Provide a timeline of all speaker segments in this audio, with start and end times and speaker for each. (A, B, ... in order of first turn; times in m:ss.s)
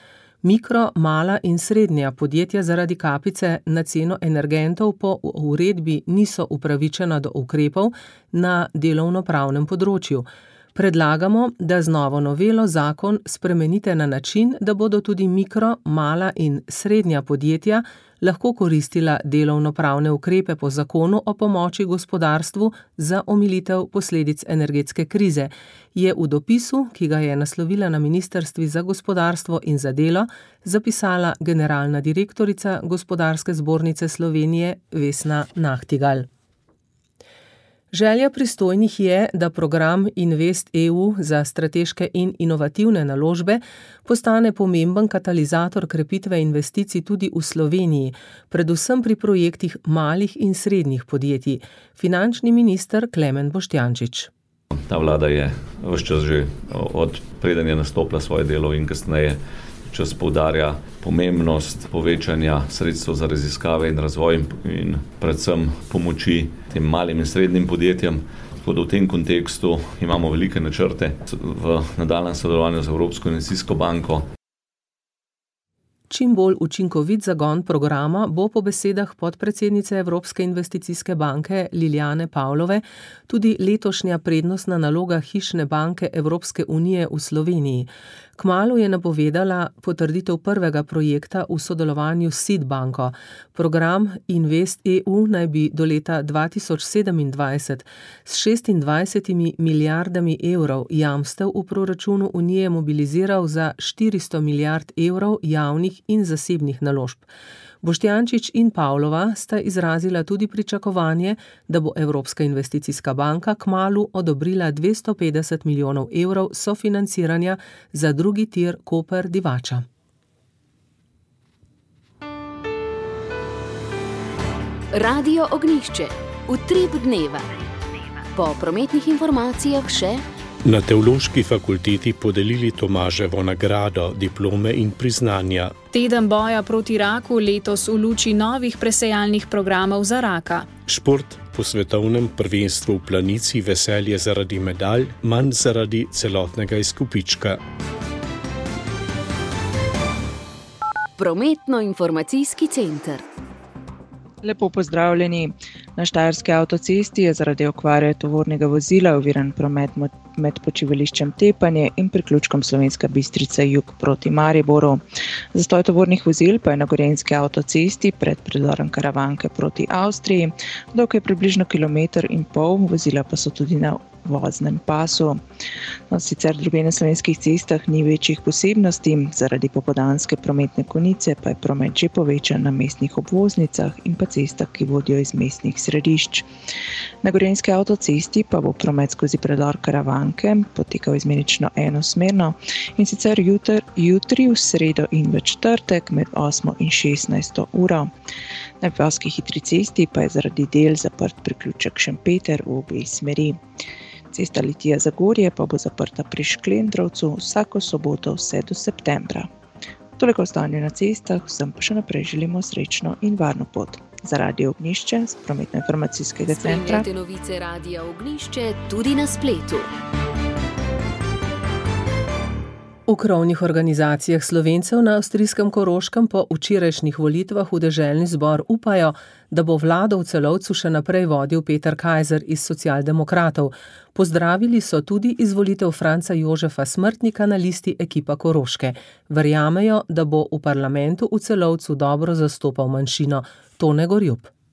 0:00.4-0:36.3 A
0:37.9-0:54.3 A
0:54.9-1:14.3 B
1:16.1-1:47.2 A
1:47.8-1:59.8 A
2:04.9-2:07.4 C
2:08.3-2:10.2 C
2:10.6-2:15.8 D
2:15.9-2:20.7 E
2:20.8-2:27.6 D
2:31.2-2:33.2 C
2:34.4-2:45.0 F
2:45.5-2:55.4 F
2:56.1-3:06.5 F
3:07.2-3:18.1 F
3:18.8-3:23.6 F
3:24.3-3:29.5 F
3:30.2-3:37.0 F
3:36.5-3:39.9 C
3:43.1-4:04.5 A